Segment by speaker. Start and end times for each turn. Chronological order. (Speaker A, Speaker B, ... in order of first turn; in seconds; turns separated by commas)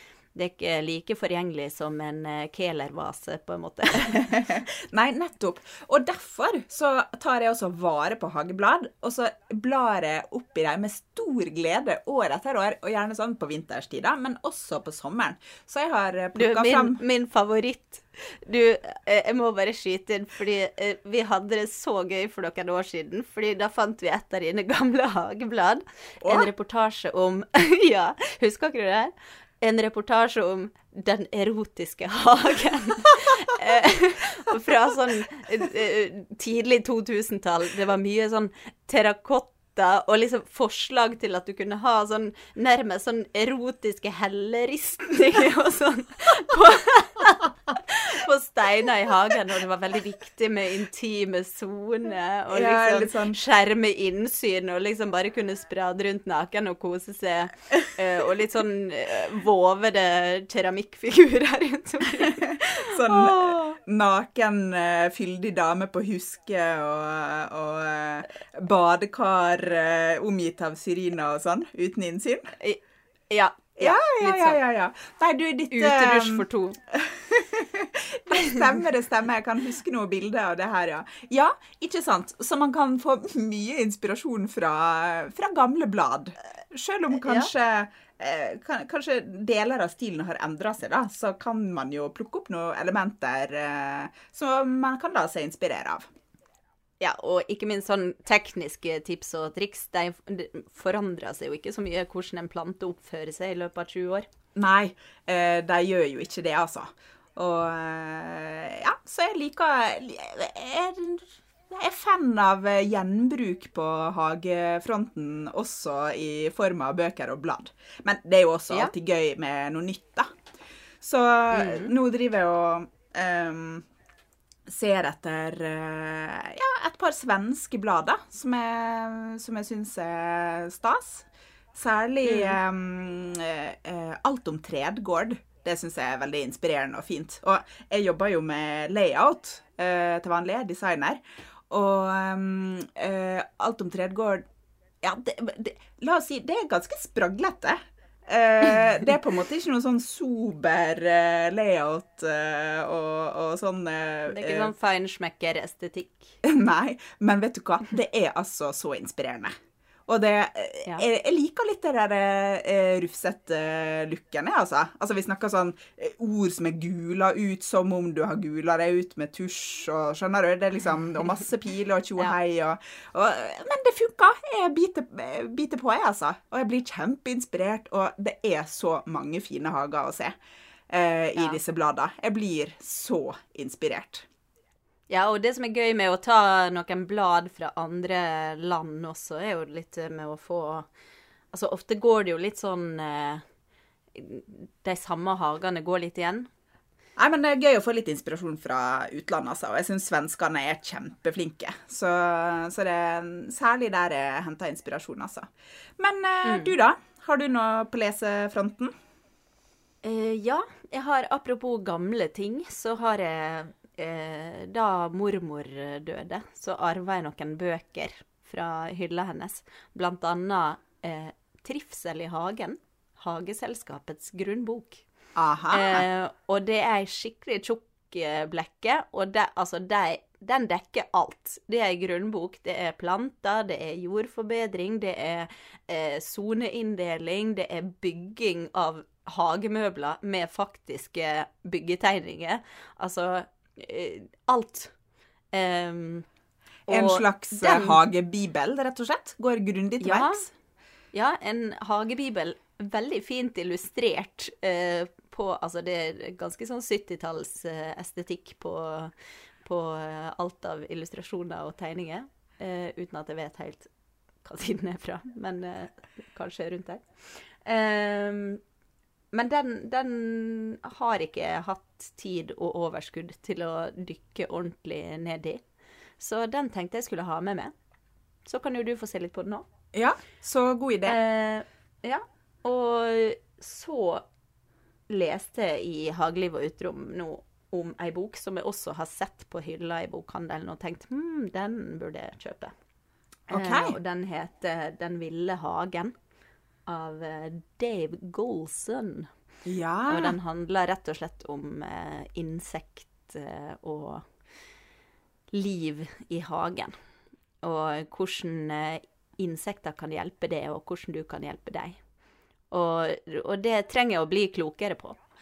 Speaker A: 0.3-4.4, Speaker B: 4.1-17.0, Speaker A: 16.4-63.8, Speaker B: 26.2-26.5, Speaker B: 52.5-53.4, Speaker B: 62.4-72.5, Speaker A: 72.6-74.6, Speaker B: 73.8-96.1, Speaker A: 75.7-76.8, Speaker A: 78.3-78.6, Speaker A: 87.2-87.5, Speaker A: 97.0-104.3, Speaker B: 104.5-120.3, Speaker B: 121.0-123.9, Speaker A: 121.5-121.9, Speaker B: 124.7-144.4, Speaker A: 132.3-132.6, Speaker B: 145.0-154.7, Speaker A: 154.3-156.4, Speaker B: 156.4-159.5, Speaker B: 160.1-180.3, Speaker B: 180.9-184.3, Speaker A: 185.1-190.9, Speaker A: 191.5-193.4, Speaker A: 194.1-196.5, Speaker B: 197.2-205.5, Speaker B: 206.0-208.9, Speaker A: 206.4-206.8, Speaker A: 210.0-225.0, Speaker B: 225.3-226.1, Speaker A: 225.7-244.9, Speaker A: 245.5-246.3, Speaker A: 246.9-248.0, Speaker B: 246.9-250.5, Speaker A: 250.0-250.4, Speaker A: 251.1-263.9, Speaker A: 264.4-268.6, Speaker A: 269.3-275.6, Speaker A: 276.2-277.7, Speaker A: 278.5-279.6, Speaker B: 279.9-281.2, Speaker A: 281.1-284.2, Speaker A: 285.1-292.7, Speaker A: 293.5-296.1, Speaker B: 293.5-294.0, Speaker A: 296.9-299.3, Speaker B: 299.6-300.4, Speaker A: 300.1-304.3, Speaker A: 305.5-306.9, Speaker A: 307.6-312.0, Speaker A: 312.7-315.2